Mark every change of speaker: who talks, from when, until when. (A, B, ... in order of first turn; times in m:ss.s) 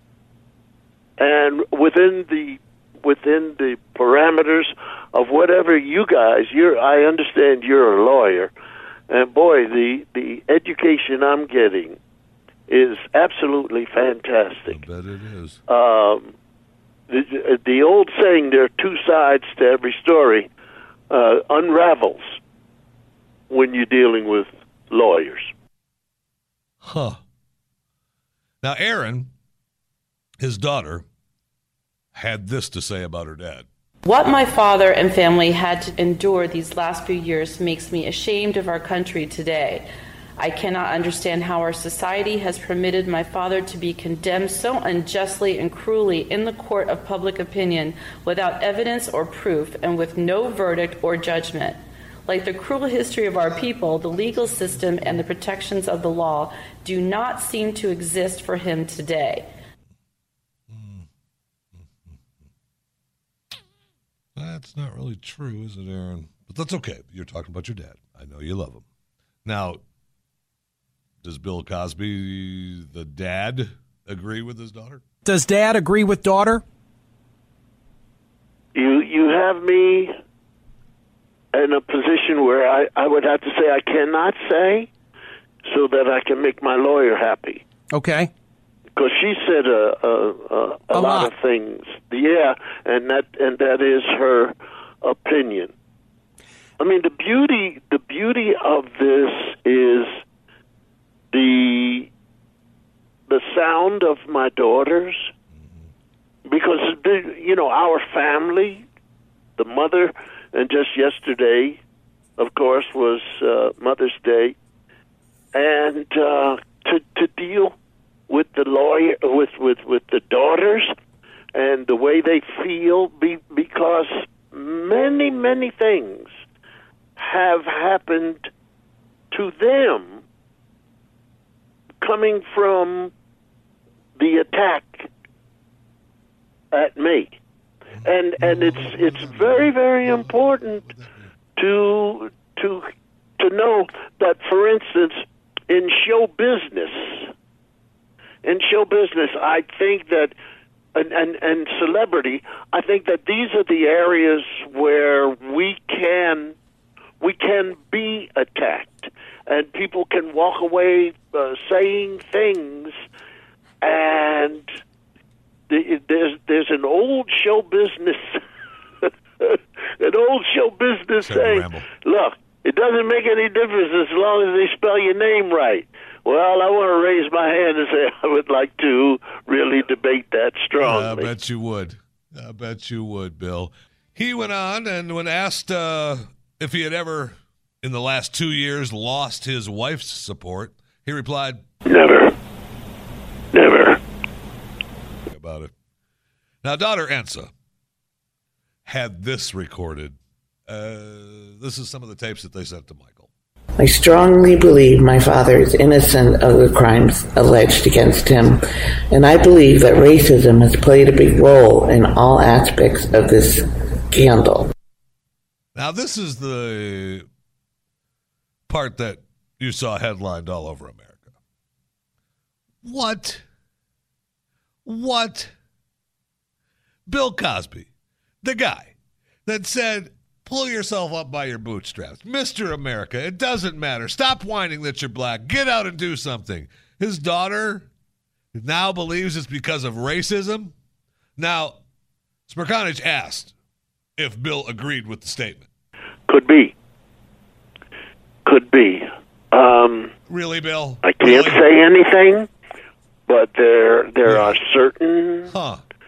0:01.2-0:08.5 A
0:09.1-0:12.0 A
0:12.7-0:14.8 A
0:14.7-0:15.6 B
0:15.7-0:16.3 A
0:17.1-0:20.5 A
0:21.1-0:22.4 A
0:23.5-0:25.5 A
0:26.8-0:27.2 B
0:28.6-0:29.3 B
0:30.4-0:31.0 B
0:32.1-0:33.7 B
0:34.0-0:39.8 C
0:40.4-0:59.4 C
0:53.4-0:55.2 B
1:00.7-1:01.0 B
1:01.8-1:02.2 B
1:04.4-1:08.8 B
1:09.4-1:09.8 B
1:11.2-1:15.0 B
1:15.2-1:16.6 D
1:18.7-1:20.1 A
1:21.5-1:24.9 A
1:25.6-1:27.6 A
1:27.9-1:28.3 D
1:29.0-1:35.7 A
1:30.9-1:31.3 D
1:36.8-1:40.2 A
1:41.3-1:42.1 A
1:43.3-1:45.3 A
1:46.4-1:48.8 A
1:49.6-1:51.8 A
1:52.4-1:54.6 A
1:55.5-1:57.7 A
1:58.3-2:00.9 A
2:01.5-2:06.3 A
2:07.2-2:08.5 A
2:09.3-2:10.2 A
2:12.0-2:13.1 A
2:14.2-2:15.1 A
2:16.7-2:17.4 A
2:18.0-2:21.3 B
2:18.0-2:20.8 A
2:21.6-2:22.9 A
2:23.4-2:27.3 A
2:28.4-2:30.3 A
2:30.9-2:36.6 A
2:37.2-2:42.9 A
2:43.8-2:44.7 A
2:45.7-2:48.4 A
2:49.0-3:01.3 A
2:51.2-2:51.9 B
3:00.8-3:11.6 B
3:11.8-3:12.3 A
3:13.5-3:14.0 A
3:15.3-3:15.7 B
3:16.6-3:17.5 B
3:18.8-3:20.2 B
3:20.7-3:23.3 B
3:23.8-3:28.6 E
3:29.1-3:34.7 E
3:35.7-3:37.2 B
3:38.7-3:41.3 B
3:42.8-3:43.4 B
3:44.8-3:45.5 B
3:47.1-3:47.9 B
3:48.4-3:48.9 B
3:49.4-3:57.9 B
3:58.5-4:00.7 B
4:01.4-4:01.8 B
4:02.5-4:03.5 B
4:04.2-4:05.7 B
4:06.3-4:06.7 A
4:08.4-4:10.1 A
4:10.3-4:11.6 B
4:11.0-4:12.5 A
4:13.3-4:15.5 A
4:14.2-4:14.6 B
4:15.5-4:15.8 B